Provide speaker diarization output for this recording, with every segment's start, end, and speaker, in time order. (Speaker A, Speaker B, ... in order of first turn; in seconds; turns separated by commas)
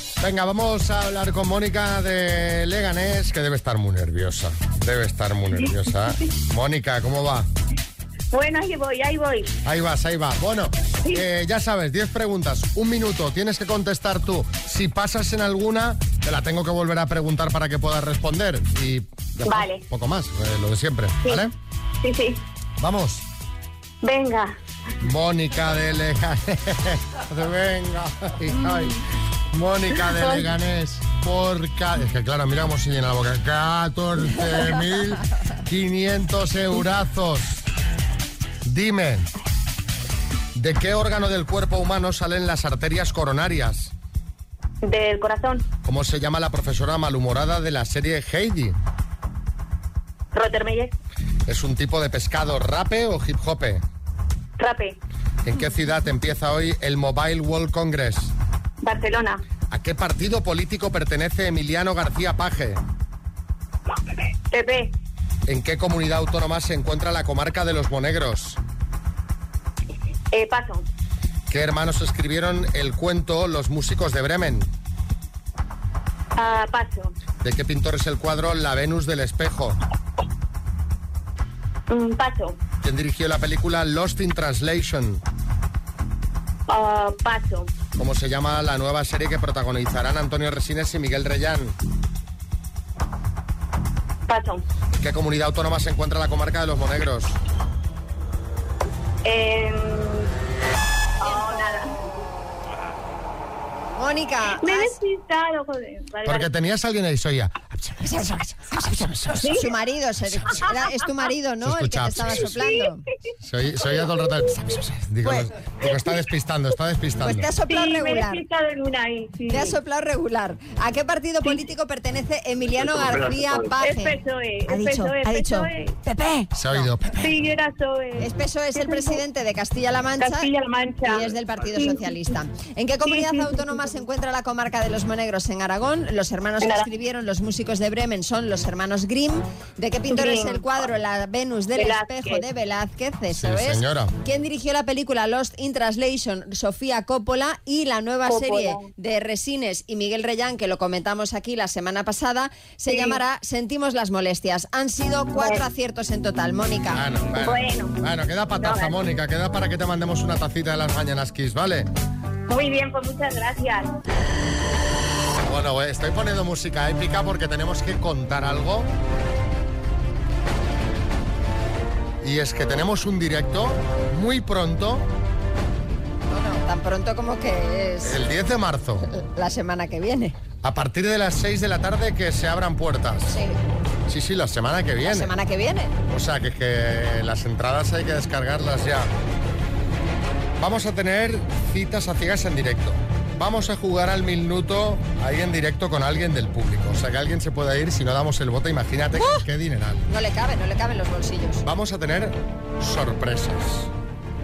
Speaker A: 0.2-7.5, Speaker B: 8.3-9.5, Speaker A: 9.7-21.5, Speaker B: 19.4-19.8, Speaker B: 22.0-22.4, Speaker A: 22.8-23.2, Speaker B: 24.0-24.6, Speaker A: 25.0-37.6, Speaker B: 30.1-30.4, Speaker A: 38.6-39.3, Speaker A: 40.5-43.9, Speaker B: 44.8-45.7, Speaker A: 45.9-48.8, Speaker B: 50.3-51.0, Speaker A: 51.5-53.8, Speaker B: 54.6-55.0, Speaker A: 55.4-58.3, Speaker B: 58.8-59.4, Speaker A: 59.7-62.8, Speaker B: 63.9-64.9, Speaker A: 65.5-68.6, Speaker B: 70.3-70.8, Speaker A: 71.5-74.7, Speaker B: 76.4-77.1, Speaker A: 77.4-79.8, Speaker B: 81.9-82.6, Speaker A: 82.8-85.2, Speaker B: 86.7-87.7, Speaker A: 88.0-91.8, Speaker B: 94.3-94.6, Speaker A: 95.0-97.4, Speaker B: 99.2-100.3, Speaker B: 101.2-102.0, Speaker C: 101.2-101.8, Speaker C: 104.0-105.0, Speaker B: 104.6-106.5, Speaker A: 106.2-109.4, Speaker C: 108.0-113.0, Speaker B: 109.4-109.7, Speaker A: 111.6-112.5, Speaker A: 113.4-117.5, Speaker B: 114.0-114.5, Speaker C: 115.2-115.5, Speaker C: 117.2-118.4, Speaker B: 117.7-119.8, Speaker C: 119.5-126.9, Speaker B: 123.8-126.0, Speaker A: 126.5-127.3, Speaker B: 127.2-129.2, Speaker C: 128.2-130.5, Speaker B: 130.2-132.2, Speaker C: 131.1-157.0, Speaker B: 133.1-133.9, Speaker B: 136.6-136.9, Speaker B: 140.1-140.7, Speaker B: 141.8-142.4, Speaker A: 143.3-144.1, Speaker B: 148.3-148.9, Speaker B: 152.9-153.2, Speaker B: 155.4-155.7, Speaker A: 156.9-161.9, Speaker B: 157.4-158.0, Speaker B: 158.6-159.0, Speaker B: 162.5-163.9, Speaker A: 165.4-168.9, Speaker A: 172.2-175.1, Speaker C: 176.3-178.2, Speaker A: 178.0-179.1, Speaker C: 179.1-180.4, Speaker A: 180.6-183.4, Speaker C: 183.3-183.6, Speaker A: 184.1-185.3, Speaker C: 185.0-185.9, Speaker A: 186.1-189.1, Speaker A: 190.6-200.1, Speaker C: 200.1-201.6, Speaker A: 201.6-203.9